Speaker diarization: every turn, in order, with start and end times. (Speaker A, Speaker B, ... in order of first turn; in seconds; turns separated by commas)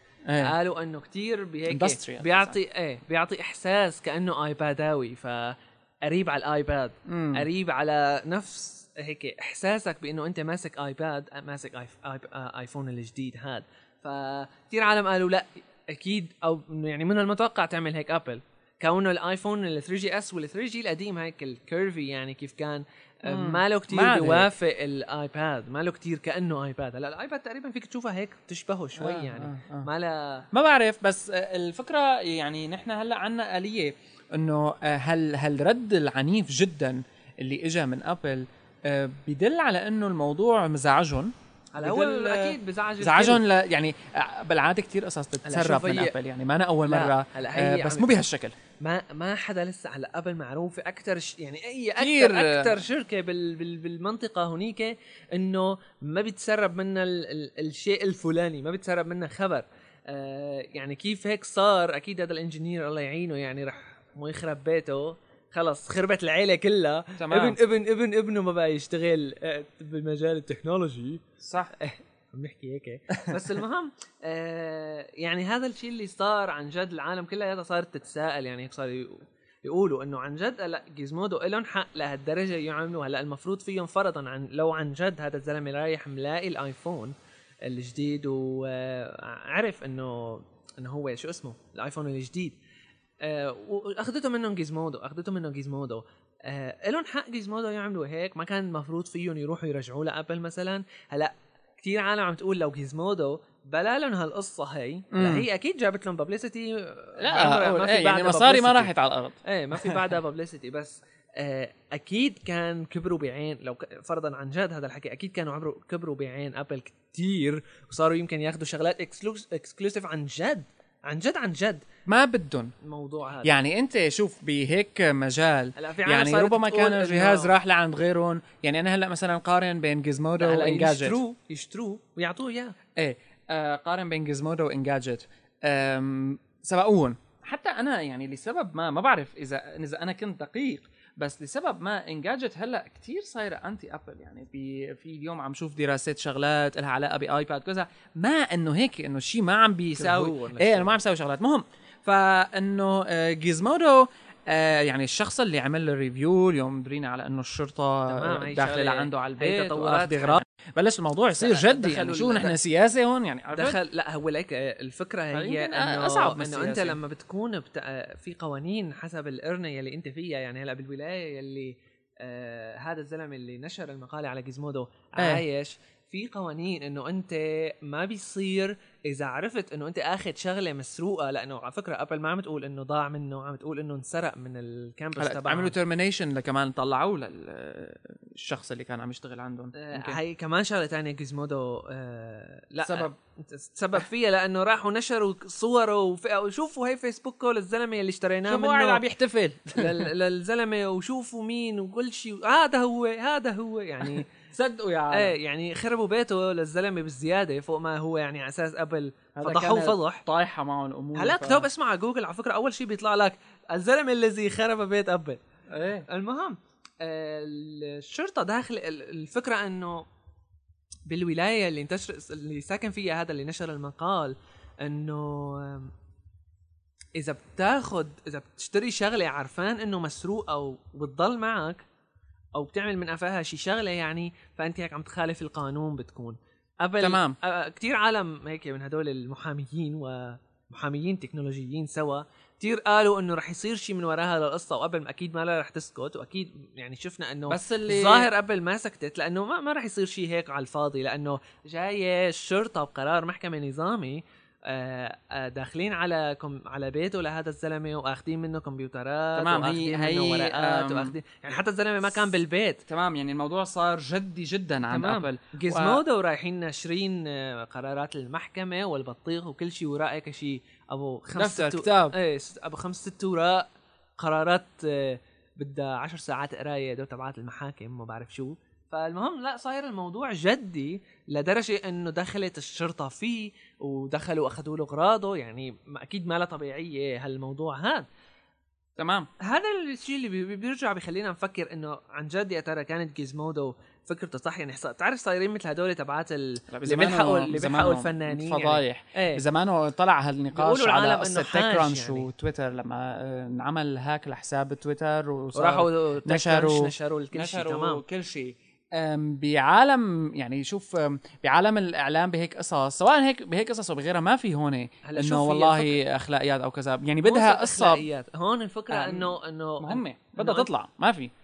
Speaker A: 0.2-0.5, Speaker B: 0.4-30.5, Speaker A: 1.7-2.6, Speaker A: 7.1-7.5, Speaker A: 23.3-24.5, Speaker A: 29.0-29.9, Speaker A: 30.5-48.6, Speaker B: 41.8-43.4, Speaker B: 45.4-46.1, Speaker B: 46.9-48.2, Speaker B: 48.8-92.6, Speaker A: 52.0-52.8, Speaker A: 67.2-67.6, Speaker A: 71.4-71.7, Speaker B: 93.2-108.9, Speaker A: 105.1-105.5, Speaker A: 107.2-110.1, Speaker B: 109.4-121.8, Speaker A: 122.1-122.7, Speaker B: 122.8-123.5, Speaker A: 123.4-131.2, Speaker B: 125.8-127.5, Speaker B: 130.4-132.8, Speaker A: 133.0-163.8, Speaker B: 149.9-151.0, Speaker B: 158.1-160.4, Speaker B: 161.4-162.5, Speaker B: 163.5-185.8, Speaker A: 165.3-167.0, Speaker A: 175.2-175.4, Speaker A: 185.2-190.2, Speaker B: 189.8-199.0, Speaker A: 192.8-193.2, Speaker A: 198.5-200.1, Speaker B: 199.8-204.3, Speaker A: 204.5-205.3, Speaker B: 205.1-210.2, Speaker A: 209.4-211.7, Speaker B: 211.2-215.4, Speaker A: 215.7-216.1, Speaker B: 216.1-220.1, Speaker B: 221.1-225.9, Speaker B: 227.2-231.8, Speaker B: 232.6-262.8, Speaker A: 237.0-237.4, Speaker A: 247.5-248.3, Speaker A: 259.4-261.2, Speaker A: 262.9-266.0, Speaker B: 264.9-273.7, Speaker A: 271.4-272.2, Speaker B: 274.2-288.1, Speaker A: 289.0-289.3, Speaker B: 289.4-299.4, Speaker A: 296.7-318.1, Speaker B: 300.5-302.3, Speaker B: 305.6-308.0, Speaker B: 315.0-316.0, Speaker B: 317.2-320.7, Speaker A: 318.9-321.3